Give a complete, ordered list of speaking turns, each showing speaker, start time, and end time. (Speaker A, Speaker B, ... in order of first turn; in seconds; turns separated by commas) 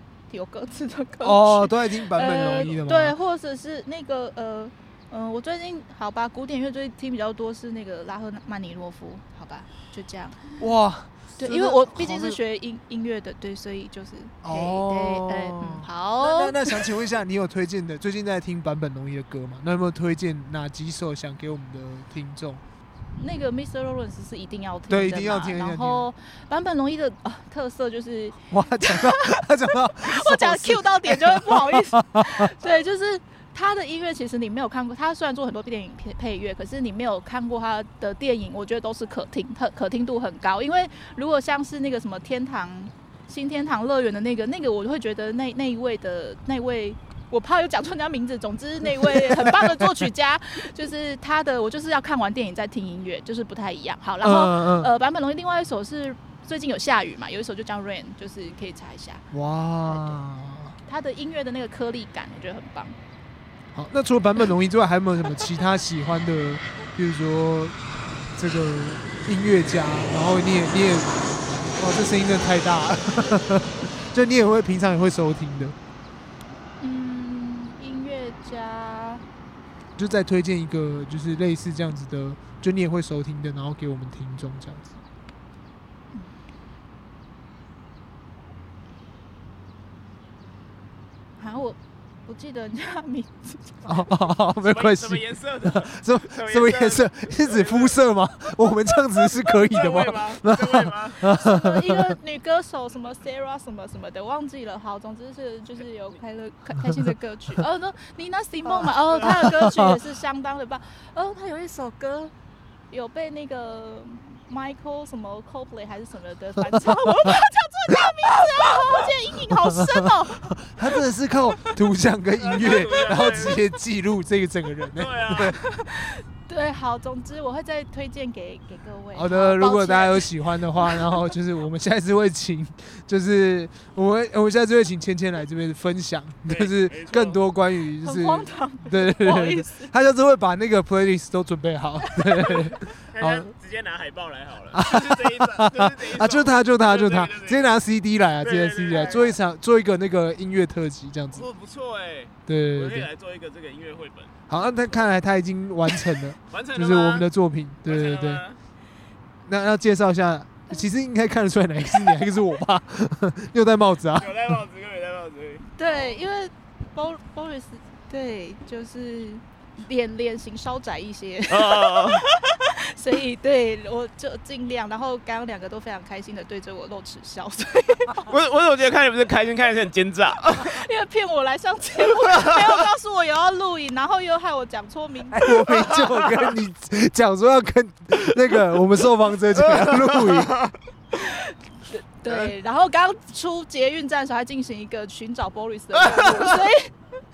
Speaker A: 0.3-10.4, Speaker B: 1.2-3.2, Speaker B: 10.6-12.4, Speaker A: 11.4-16.9, Speaker B: 14.4-22.6, Speaker A: 23.1-59.2, Speaker B: 24.9-26.1, Speaker B: 28.5-32.5, Speaker B: 49.0-50.1, Speaker B: 54.2-54.9, Speaker B: 59.3-60.8, Speaker A: 59.9-60.2, Speaker A: 60.9-63.0, Speaker B: 63.8-67.8, Speaker B: 68.4-75.8, Speaker A: 76.8-79.2, Speaker B: 80.0-85.0, Speaker A: 91.4-94.0, Speaker B: 93.9-102.2, Speaker C: 94.6-98.0, Speaker C: 99.5-101.2, Speaker A: 101.2-112.3, Speaker B: 109.2-109.9, Speaker A: 112.9-120.5, Speaker B: 119.5-125.6, Speaker C: 122.4-123.6, Speaker C: 125.0-125.6, Speaker A: 125.5-131.3, Speaker B: 129.1-143.5, Speaker C: 136.5-137.4, Speaker A: 138.0-139.9, Speaker A: 142.1-142.6, Speaker C: 143.1-147.7, Speaker B: 144.7-151.5, Speaker C: 148.4-149.4, Speaker A: 149.0-149.3, Speaker C: 151.3-154.3, Speaker B: 152.5-153.1, Speaker B: 154.5-158.4, Speaker C: 156.5-157.3, Speaker C: 157.9-158.6, Speaker B: 159.5-164.6, Speaker C: 164.2-166.2, Speaker A: 165.8-178.3, Speaker C: 171.5-172.2, Speaker C: 178.2-180.8, Speaker A: 180.5-185.5, Speaker C: 182.2-182.5, Speaker B: 185.3-190.5, Speaker C: 185.7-186.5, Speaker C: 189.5-190.7, Speaker A: 191.1-196.9, Speaker C: 196.0-196.6